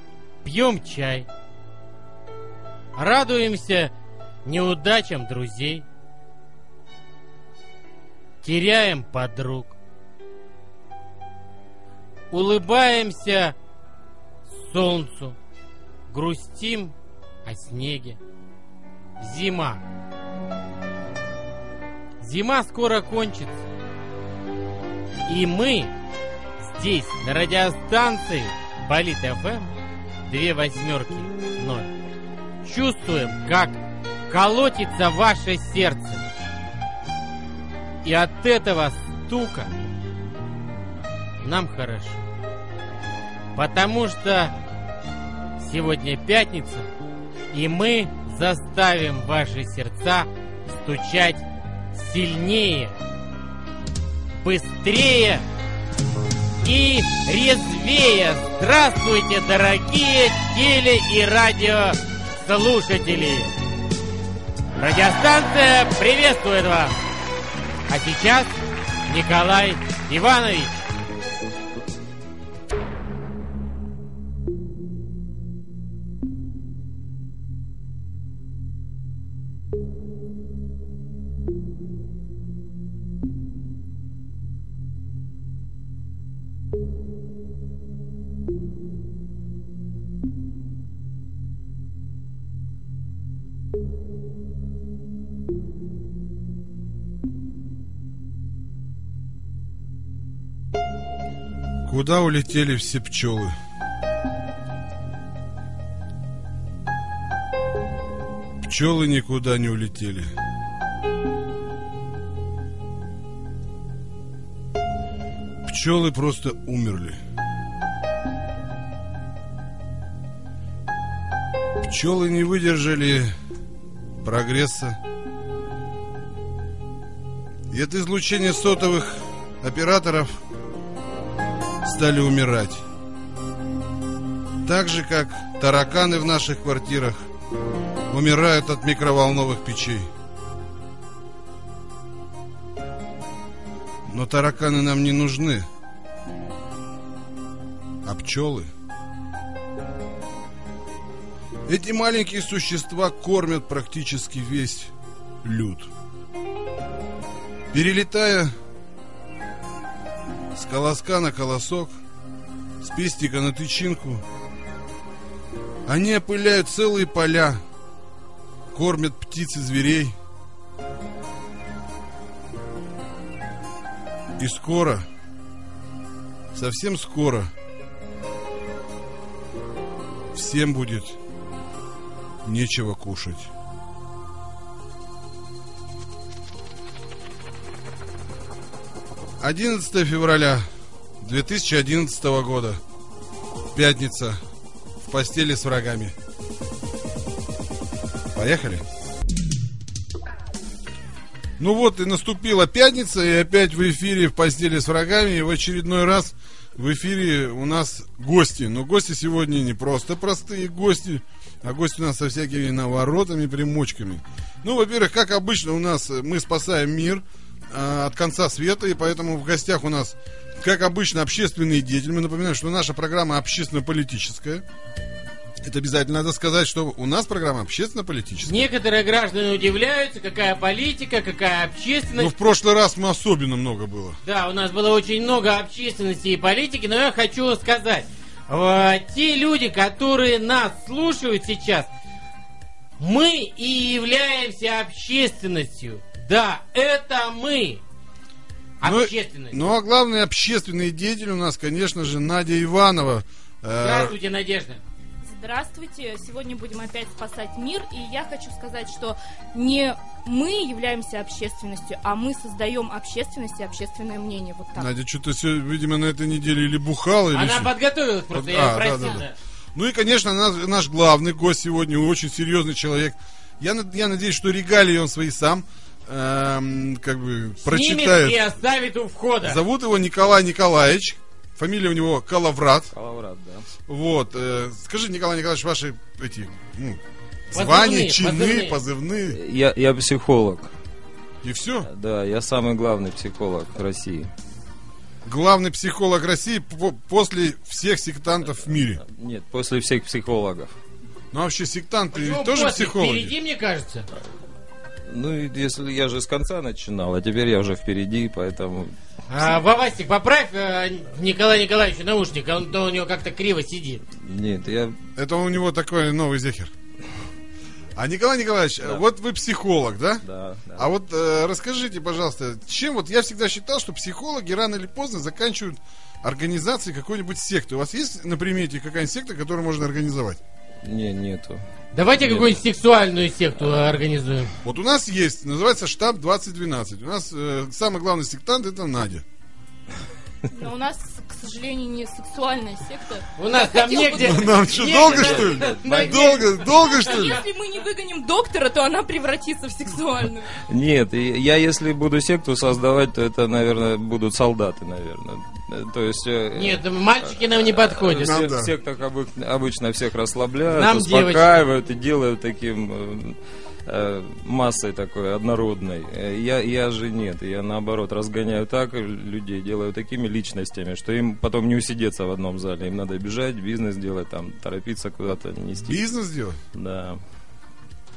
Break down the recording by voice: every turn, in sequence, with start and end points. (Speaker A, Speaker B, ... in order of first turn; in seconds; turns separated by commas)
Speaker A: 0.4-1.3, Speaker A: 3.0-3.9, Speaker A: 4.4-5.8, Speaker A: 8.4-9.7, Speaker A: 12.3-13.5, Speaker A: 14.5-15.4, Speaker A: 16.1-16.9, Speaker A: 17.4-18.2, Speaker A: 19.2-19.8, Speaker A: 22.2-23.6, Speaker A: 25.2-25.9, Speaker A: 26.6-29.7, Speaker A: 30.3-31.9, Speaker A: 32.6-36.2, Speaker A: 38.0-39.7, Speaker A: 41.4-42.2, Speaker A: 43.5-44.5, Speaker A: 45.6-46.9, Speaker A: 47.5-53.0, Speaker A: 54.4-55.4, Speaker A: 56.6-63.5, Speaker A: 64.8-67.0, Speaker A: 67.9-68.5, Speaker A: 69.1-70.8, Speaker B: 101.8-103.5, Speaker B: 108.6-110.3, Speaker B: 115.6-117.2, Speaker B: 121.8-123.3, Speaker B: 124.2-125.0, Speaker B: 127.7-130.4, Speaker B: 131.8-132.8, Speaker B: 134.6-137.2, Speaker B: 138.1-140.1, Speaker B: 144.1-145.7, Speaker B: 148.0-148.7, Speaker B: 151.7-154.9, Speaker B: 155.4-155.9, Speaker B: 157.7-158.5, Speaker B: 160.5-162.0, Speaker B: 162.8-164.2, Speaker B: 165.8-167.6, Speaker B: 168.7-170.2, Speaker B: 174.4-175.1, Speaker B: 176.5-177.5, Speaker B: 180.3-181.2, Speaker B: 182.4-183.5, Speaker B: 189.4-190.7, Speaker B: 191.2-192.8, Speaker B: 193.7-194.4, Speaker B: 195.0-196.1, Speaker B: 198.3-198.8, Speaker B: 201.6-224.6, Speaker B: 225.6-228.7, Speaker A: 228.4-232.3, Speaker B: 232.2-234.2, Speaker A: 234.2-241.9, Speaker A: 243.0-247.8, Speaker A: 248.8-249.7, Speaker B: 248.8-254.1, Speaker A: 253.8-254.8, Speaker C: 255.2-264.9, Speaker B: 264.8-267.7, Speaker A: 267.3-269.3, Speaker B: 268.3-269.2, Speaker B: 269.7-278.4, Speaker A: 277.6-279.6, Speaker B: 279.4-282.9, Speaker D: 282.9-283.6, Speaker B: 283.9-289.4, Speaker A: 287.5-288.8, Speaker D: 289.3-290.7, Speaker B: 291.4-291.9, Speaker D: 291.8-294.3, Speaker B: 295.2-299.0, Speaker D: 298.8-300.7, Speaker B: 301.3-303.3, Speaker A: 302.1-304.1, Speaker D: 305.1-308.9, Speaker A: 309.3-314.0, Speaker D: 314.2-315.0, Speaker B: 315.1-316.7, Speaker B: 317.9-320.2, Speaker D: 320.2-320.9, Speaker B: 320.8-330.4, Speaker D: 330.8-331.6, Speaker A: 331.9-334.5, Speaker D: 332.2-332.6, Speaker B: 334.6-339.2, Speaker C: 340.5-344.6, Speaker A: 343.4-346.4, Speaker B: 344.2-347.4, Speaker D: 345.1-346.2, Speaker C: 345.9-350.5, Speaker D: 350.6-376.0, Speaker A: 356.5-358.3, Speaker B: 358.2-358.7, Speaker A: 360.7-361.5, Speaker B: 375.9-376.6, Speaker D: 376.7-377.2